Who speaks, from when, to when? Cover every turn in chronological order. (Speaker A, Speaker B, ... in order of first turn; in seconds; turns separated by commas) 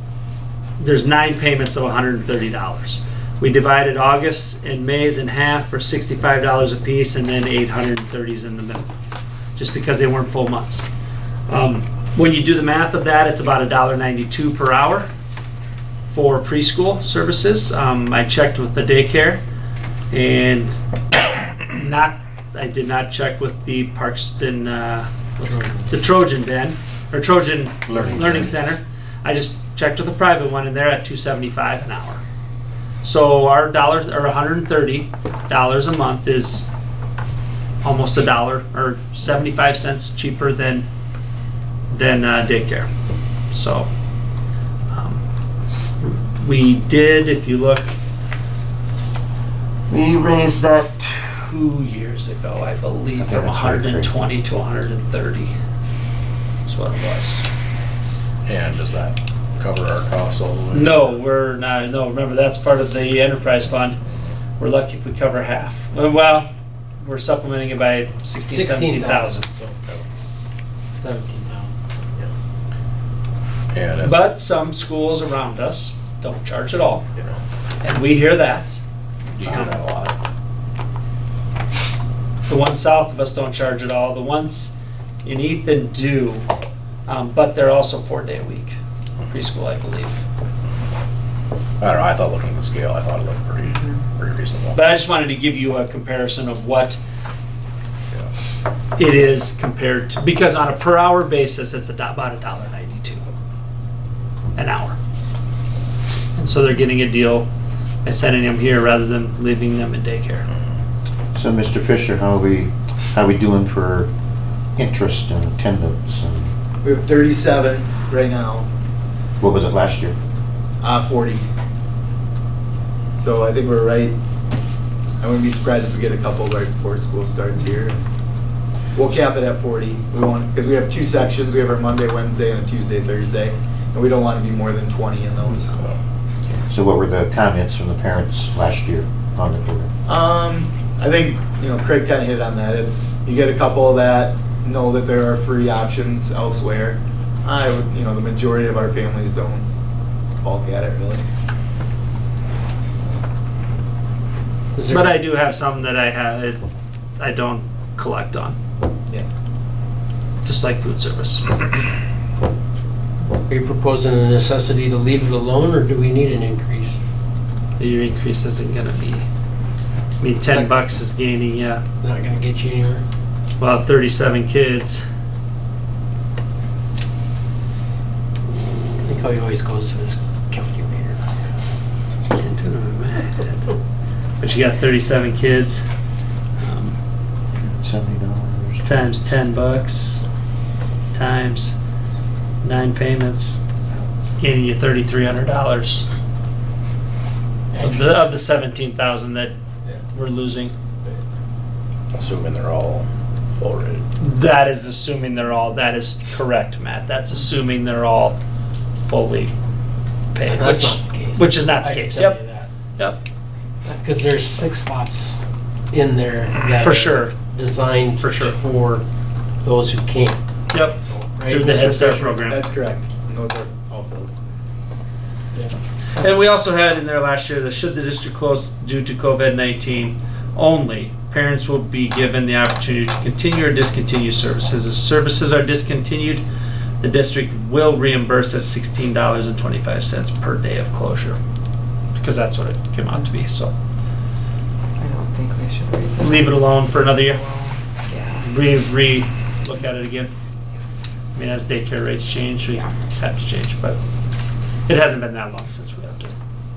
Speaker A: 0.8-8.9, Speaker A: 9.6-10.8, Speaker A: 11.5-15.1, Speaker A: 16.1-19.4, Speaker A: 20.1-20.8, Speaker A: 21.7-32.2, Speaker B: 25.4-25.9, Speaker C: 27.9-28.5, Speaker B: 27.9-28.3, Speaker A: 33.0-36.7, Speaker A: 37.8-40.9, Speaker A: 41.9-42.9, Speaker A: 43.5-43.9, Speaker A: 44.9-45.2, Speaker A: 46.0-47.9, Speaker A: 49.9-55.5, Speaker C: 53.1-54.1, Speaker A: 56.7-57.5, Speaker D: 58.5-61.0, Speaker A: 60.7-64.0, Speaker A: 64.6-69.5, Speaker B: 68.5-69.7, Speaker B: 71.0-71.7, Speaker D: 73.7-74.3, Speaker A: 74.0-77.0, Speaker A: 77.8-78.8, Speaker D: 79.3-80.0, Speaker A: 79.4-80.2, Speaker A: 82.5-84.7, Speaker A: 85.2-86.5, Speaker A: 87.0-90.2, Speaker D: 91.8-94.8, Speaker A: 94.7-97.0, Speaker A: 99.0-103.3, Speaker A: 104.5-105.0, Speaker A: 106.3-107.5, Speaker A: 108.0-110.5, Speaker C: 111.3-114.1, Speaker C: 114.8-116.5, Speaker E: 116.8-118.7, Speaker C: 119.4-120.2, Speaker E: 120.8-121.4, Speaker E: 123.2-124.2, Speaker E: 125.2-128.0, Speaker E: 128.9-135.8, Speaker D: 135.7-136.0, Speaker C: 136.7-139.9, Speaker E: 140.1-149.7, Speaker E: 150.4-151.2, Speaker E: 153.0-153.2, Speaker B: 154.8-155.2, Speaker A: 154.9-156.6, Speaker A: 157.2-158.6, Speaker A: 160.4-161.5, Speaker B: 163.5-167.0, Speaker A: 167.8-169.2, Speaker A: 170.2-171.8, Speaker B: 172.0-173.0, Speaker A: 173.6-175.0, Speaker B: 178.9-181.2, Speaker A: 182.3-183.8, Speaker A: 184.4-185.9, Speaker A: 186.6-187.0, Speaker C: 187.6-188.9, Speaker A: 188.8-190.2, Speaker A: 191.1-191.8, Speaker A: 192.6-193.6, Speaker A: 194.4-196.1, Speaker B: 197.7-198.2, Speaker A: 197.8-199.6, Speaker A: 200.1-200.7, Speaker D: 202.1-204.0, Speaker A: 204.2-208.4, Speaker A: 208.9-209.5, Speaker A: 210.3-212.4, Speaker B: 210.4-212.7, Speaker B: 214.0-219.1, Speaker A: 216.8-217.3, Speaker A: 218.2-218.6, Speaker B: 219.6-222.4, Speaker A: 220.7-222.6, Speaker E: 222.5-224.3, Speaker A: 226.2-236.4, Speaker A: 237.0-241.4, Speaker A: 242.1-243.7, Speaker F: 245.0-248.5, Speaker A: 246.2-247.4, Speaker A: 248.4-250.3, Speaker A: 251.3-254.0, Speaker A: 254.9-256.3